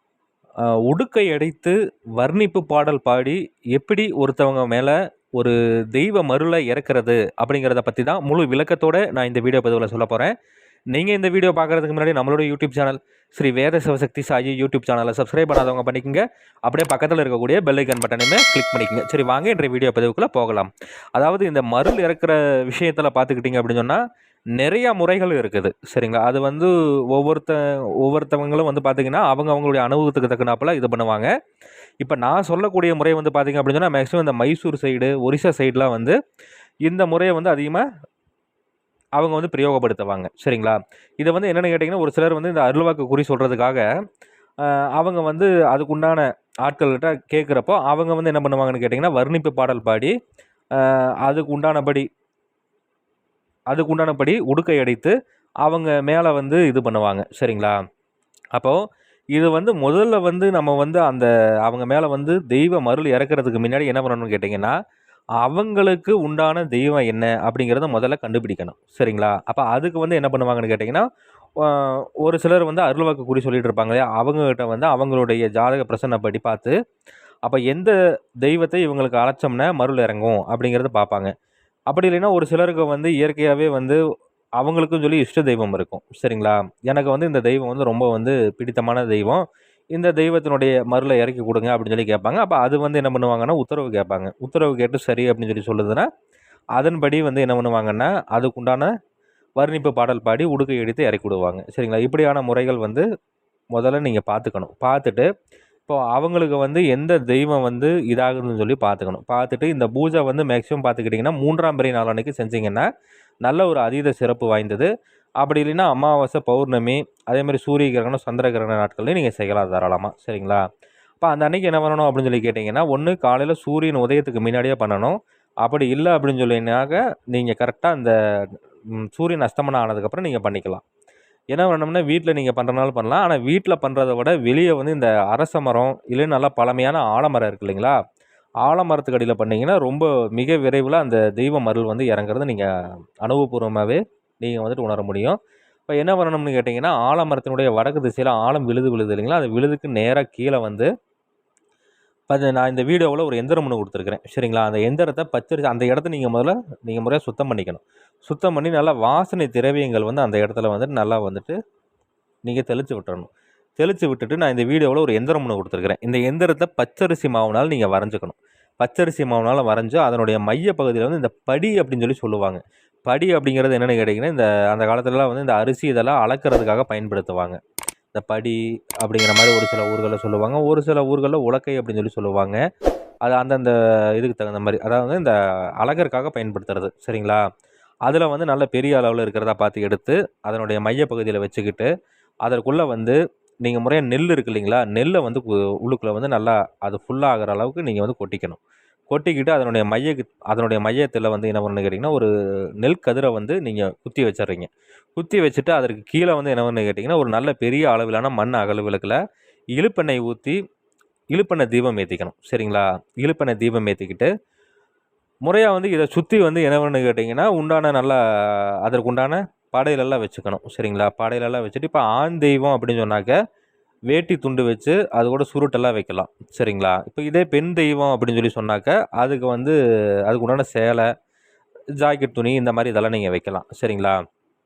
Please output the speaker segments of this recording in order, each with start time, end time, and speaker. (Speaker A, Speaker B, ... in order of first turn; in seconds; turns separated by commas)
Speaker A: 0.8-10.3, Speaker A: 10.9-24.0, Speaker A: 24.6-31.3, Speaker A: 32.0-36.1, Speaker A: 36.9-37.8, Speaker A: 39.2-43.8, Speaker A: 44.6-50.1, Speaker A: 50.8-52.0, Speaker A: 53.7-55.1, Speaker A: 55.6-57.8, Speaker A: 58.5-58.8, Speaker A: 59.3-64.7, Speaker A: 65.4-71.0, Speaker A: 71.6-76.7, Speaker A: 77.5-81.3, Speaker A: 81.9-84.0, Speaker A: 84.6-96.1, Speaker A: 96.8-98.9, Speaker A: 99.6-103.0, Speaker A: 103.7-105.2, Speaker A: 105.9-112.8, Speaker A: 113.4-114.9, Speaker A: 115.4-120.6, Speaker A: 121.2-128.1, Speaker A: 128.9-130.8, Speaker A: 131.5-137.9, Speaker A: 138.6-142.7, Speaker A: 143.2-145.4, Speaker A: 145.9-150.9, Speaker A: 152.3-161.5, Speaker A: 162.4-177.6, Speaker A: 178.1-182.6, Speaker A: 183.2-187.4, Speaker A: 188.1-191.9, Speaker A: 192.4-202.3, Speaker A: 202.8-209.2, Speaker A: 209.8-210.6, Speaker A: 211.3-214.3, Speaker A: 215.4-223.3, Speaker A: 224.1-229.8, Speaker A: 230.3-231.1, Speaker A: 232.0-234.2